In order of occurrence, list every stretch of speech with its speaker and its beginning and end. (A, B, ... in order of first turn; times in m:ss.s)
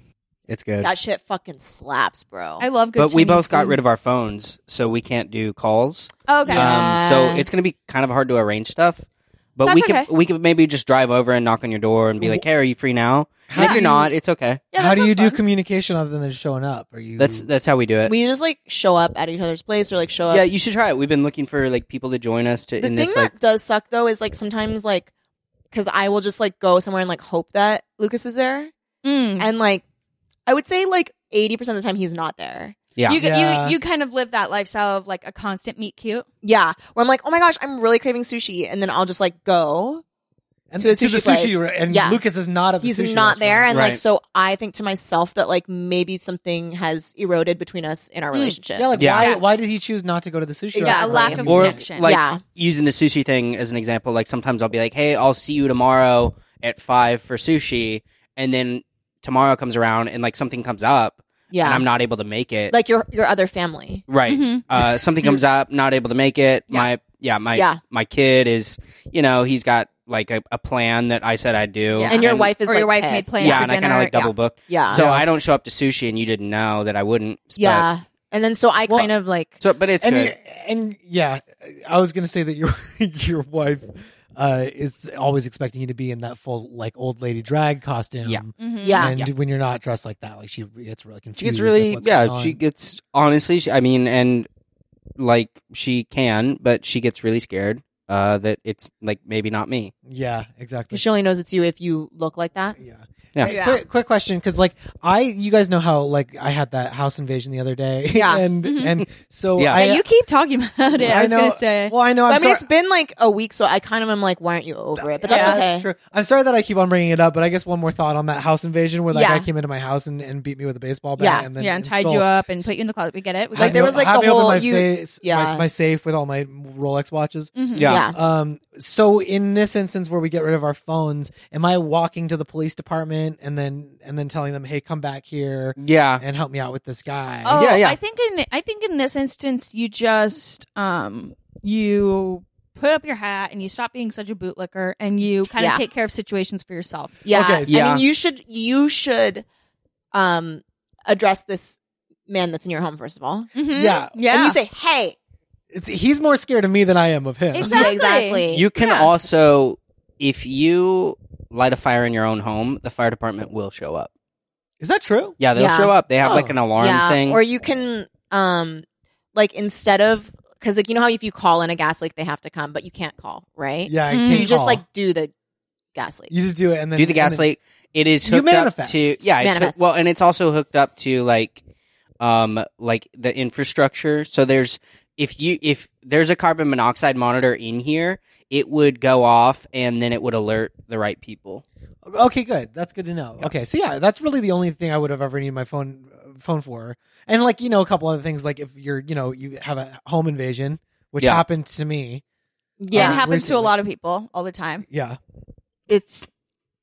0:00.5-0:00.9 A
0:00.8-0:02.6 B
0:02.6-0:03.8 C
0:03.0-0:09.0 A
0:06.3-0:07.0 C
0:06.5-0:07.5 B
0:09.6-0:14.6 A
0:09.6-0:10.1 C
0:12.2-0:12.4 D
0:13.5-0:14.0 D
0:13.6-0:14.0 C
0:14.7-0:15.4 C
0:14.8-0:17.4 D
0:17.2-0:18.1 A
0:18.0-0:20.4 B
0:20.3-0:23.3 A
0:22.8-0:25.1 B
0:25.7-0:28.7 B
0:29.0-0:29.5 C
0:29.4-0:29.8 B
0:30.4-0:32.8 B
0:33.0-0:33.2 A
0:33.1-0:36.3 C
0:33.1-0:33.8 D
0:36.4-0:40.0 B
0:40.7-0:43.7 D
0:40.8-0:42.2 B
0:42.8-0:48.9 B
0:43.7-0:44.0 A
0:48.3-0:48.6 C
0:48.7-0:51.8 D
0:48.9-0:49.3 A
0:50.7-0:52.4 B
0:50.8-0:52.2 C
0:51.4-1:02.7 A
1:01.5-1:01.8 B
1:02.7-1:04.0 B
1:04.1-1:12.5 A
1:04.3-1:04.6 C
1:07.5-1:07.8 B
1:11.9-1:14.3 C
1:12.1-1:13.7 B
1:13.4-1:17.8 A
1:14.7-1:15.0 B
1:14.9-1:15.3 D
1:17.6-1:19.6 B
1:19.6-1:20.3 A
1:20.0-1:32.6 D
1:28.6-1:29.1 C
1:28.8-1:29.1 B
1:29.0-1:29.3 A
1:31.4-1:34.5 A
1:35.2-1:39.9 A
1:40.0-1:41.0 D
1:40.9-1:42.8 B
1:42.8-1:50.0 D
1:43.4-1:43.8 C
1:48.1-1:48.4 B
1:48.6-1:49.0 C
1:49.6-1:49.8 A
1:49.7-1:51.9 C
1:50.9-1:52.6 D
1:52.3-1:55.9 B
1:55.0-2:02.7 D
1:55.3-1:55.6 C
1:59.1-1:59.5 B
2:01.2-2:01.5 B
2:01.6-2:03.9 C
2:03.5-2:17.6 D
2:03.6-2:05.6 B
2:07.5-2:07.9 C
2:07.8-2:08.0 A
2:07.8-2:08.2 B
2:15.8-2:16.2 A
2:17.4-2:27.2 C
2:17.5-2:18.0 A
2:25.6-2:25.8 B
2:27.2-2:29.4 B
2:27.3-2:28.0 D
2:30.1-2:33.5 B
2:33.5-2:34.6 C
2:33.7-2:34.1 D
2:34.2-2:35.2 B
2:35.7-2:37.8 D
2:37.5-2:39.1 C
2:37.6-2:38.7 B
2:38.5-2:44.1 A
2:44.8-2:45.3 D
2:45.4-2:47.4 A
2:45.5-2:55.3 B
2:46.2-2:46.5 D
2:53.9-2:54.8 D
2:54.1-2:54.5 C
2:55.9-2:56.3 B
2:56.3-2:57.5 D
2:57.0-3:01.6 A
2:58.2-2:59.2 D
2:59.4-2:59.8 B
3:02.2-3:11.6 A
3:12.0-3:22.2 D
3:22.8-3:23.2 B
3:22.9-3:23.7 D
3:22.9-3:24.8 C
3:24.9-3:25.2 D
3:25.9-3:26.3 B